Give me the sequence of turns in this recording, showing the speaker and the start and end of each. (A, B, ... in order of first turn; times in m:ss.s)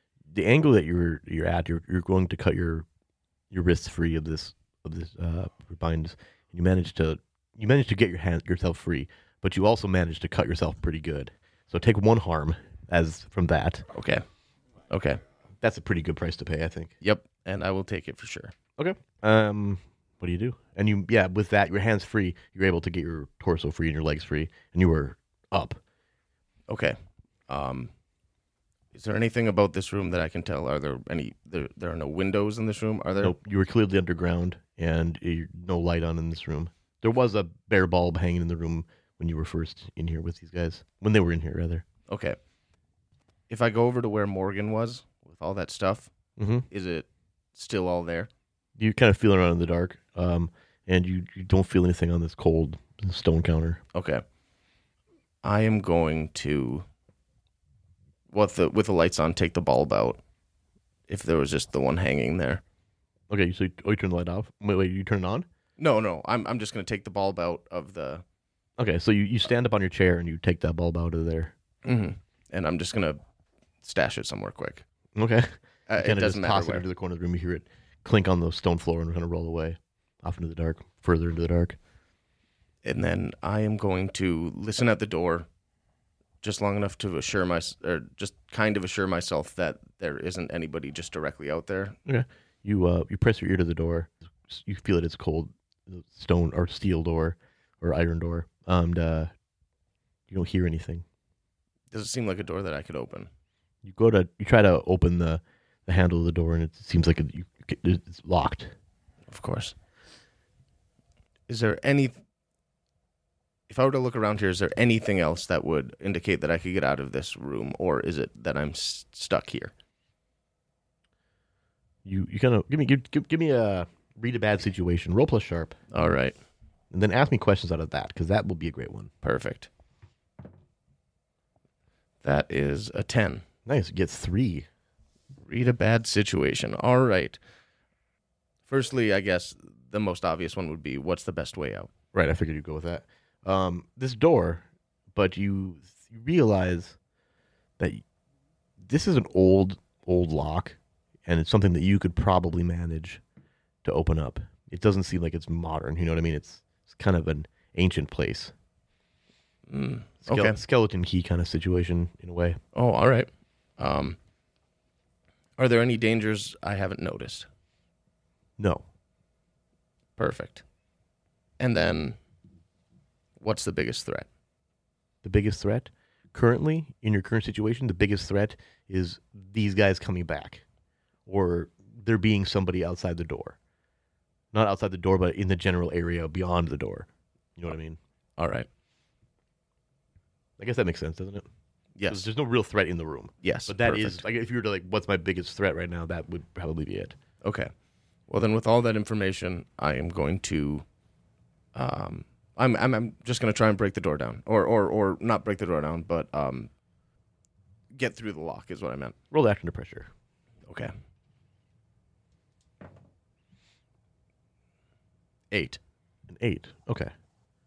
0:00.3-0:02.9 A
0:03.5-0:13.8 A
0:13.9-0:14.2 B
0:14.9-0:15.2 B
0:15.6-0:16.9 A
0:17.0-0:18.5 B
0:18.8-0:25.8 A
0:26.7-0:27.0 B
0:27.5-0:27.9 B
0:28.9-0:33.3 B
0:33.2-0:41.8 A
0:42.1-0:42.4 B
0:43.5-0:46.1 B
0:46.4-0:46.6 A
0:46.7-0:48.3 B
0:48.8-0:53.8 A
0:53.9-0:54.2 B
0:55.4-0:56.8 B
0:58.3-1:00.2 B
1:01.1-1:02.6 B
1:03.3-1:05.4 A
1:05.8-1:08.2 B
1:08.8-1:11.5 A
1:11.8-1:13.2 B
1:13.8-1:14.8 B
1:15.1-1:21.8 A
1:15.9-1:16.8 B
1:22.8-1:25.5 B
1:26.4-1:32.0 B
1:32.1-1:39.3 A
1:40.3-1:41.0 A
1:41.9-1:43.3 B
1:43.8-1:48.7 A
1:49.3-1:49.7 B
1:51.5-1:52.2 B
1:53.7-1:59.7 B
2:02.0-2:05.7 A
2:05.9-2:06.4 B
2:06.9-2:09.1 A
2:09.2-2:09.7 B
2:12.2-2:13.4 B
2:13.7-2:14.7 A
2:15.4-2:17.4 B
2:18.7-2:21.9 B
2:22.1-2:27.0 A
2:28.8-2:33.2 A
2:33.8-2:38.5 A
2:39.7-2:40.6 B
2:40.2-2:42.6 A
2:42.7-2:44.2 B
2:45.6-2:47.5 B
2:48.6-2:48.8 A
2:50.2-2:50.6 B
2:51.6-2:52.2 B
2:53.4-2:54.3 B
2:55.2-3:00.6 A
3:01.3-3:03.6 A
3:04.5-3:08.0 A
3:08.4-3:08.7 B
3:10.6-3:11.4 A
3:12.0-3:12.2 B
3:12.1-3:17.2 A
3:13.4-3:14.2 B
3:17.4-3:17.7 B
3:18.3-3:20.8 B
3:21.7-3:26.7 B
3:27.9-3:29.1 B
3:29.3-3:30.1 A
3:30.7-3:30.9 B
3:35.5-3:35.8 B
3:36.3-3:37.1 A